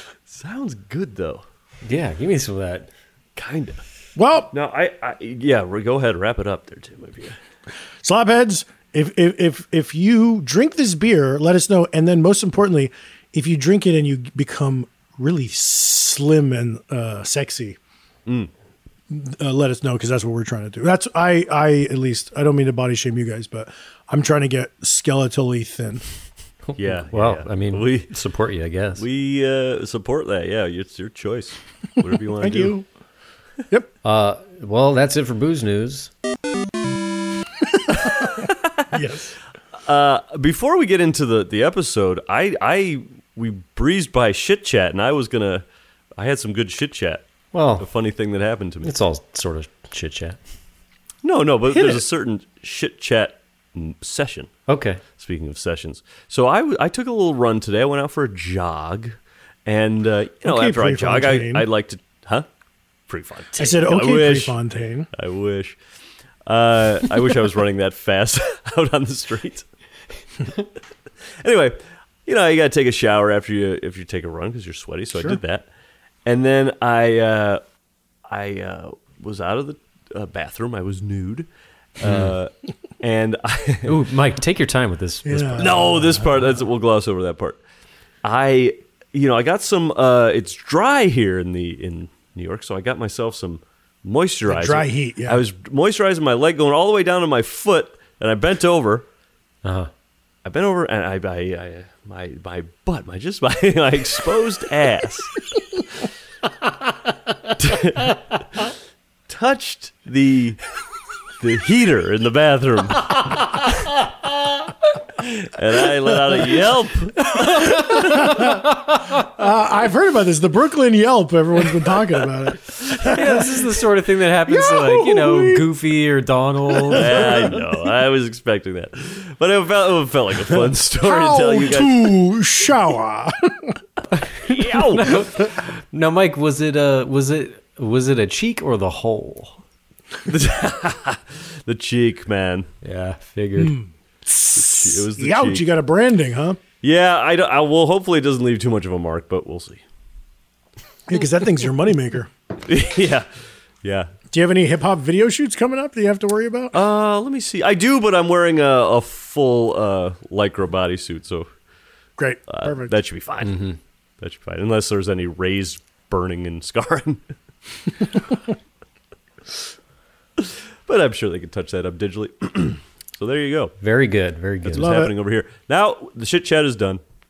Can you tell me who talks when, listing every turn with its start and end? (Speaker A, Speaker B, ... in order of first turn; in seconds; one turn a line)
Speaker A: 0.3-1.4
Speaker B: 1.9-2.9
Speaker A: 3.4-3.8
Speaker C: 4.2-4.5
Speaker A: 4.5-7.3
Speaker C: 8.0-17.8
Speaker C: 19.1-26.0
Speaker B: 26.7-29.0
Speaker A: 26.8-28.1
Speaker A: 29.0-32.7
Speaker C: 32.4-32.9
Speaker B: 34.0-36.1
Speaker C: 38.2-39.3
Speaker A: 38.4-38.9
Speaker A: 39.9-45.6
Speaker A: 46.2-47.2
Speaker B: 47.5-47.9
Speaker A: 47.8-48.9
Speaker B: 48.8-50.4
Speaker A: 51.2-54.5
Speaker C: 51.7-52.0
Speaker B: 54.7-55.0
Speaker A: 55.1-62.5
Speaker C: 60.4-61.6
Speaker A: 63.1-64.6
Speaker C: 63.6-65.1
Speaker A: 65.1-65.8
Speaker A: 66.5-69.7
Speaker A: 71.4-75.7
Speaker A: 76.2-77.6
Speaker A: 78.3-81.5
Speaker A: 82.0-84.0
Speaker B: 82.0-82.3
Speaker B: 83.8-85.8
Speaker C: 85.2-86.2
Speaker A: 85.6-87.6
Speaker A: 88.2-99.0
Speaker C: 94.5-95.4
Speaker B: 99.6-99.9
Speaker A: 100.4-105.4
Speaker A: 107.6-108.2
Speaker A: 109.3-110.6
Speaker A: 111.4-113.4
Speaker A: 115.2-117.8
Speaker B: 117.5-118.9
Speaker C: 117.5-123.6
Speaker B: 123.0-127.5
Speaker C: 124.5-125.7
Speaker C: 126.7-127.6
Speaker A: 126.9-132.1
Speaker C: 130.5-133.8
Speaker B: 134.2-139.6
Speaker A: 134.4-135.2
Speaker A: 140.2-142.7
Speaker B: 142.8-143.8
Speaker C: 143.6-146.6
Speaker A: 144.5-145.7
Speaker A: 146.8-149.8
Speaker C: 151.1-152.3
Speaker A: 152.6-153.3
Speaker A: 153.8-154.1
Speaker C: 154.3-156.8
Speaker A: 156.7-161.5
Speaker C: 162.2-163.0
Speaker A: 162.5-163.7
Speaker B: 163.4-163.8
Speaker A: 164.2-167.2
Speaker A: 170.4-173.7
Speaker B: 173.8-174.9
Speaker A: 174.6-177.0
Speaker C: 174.7-175.1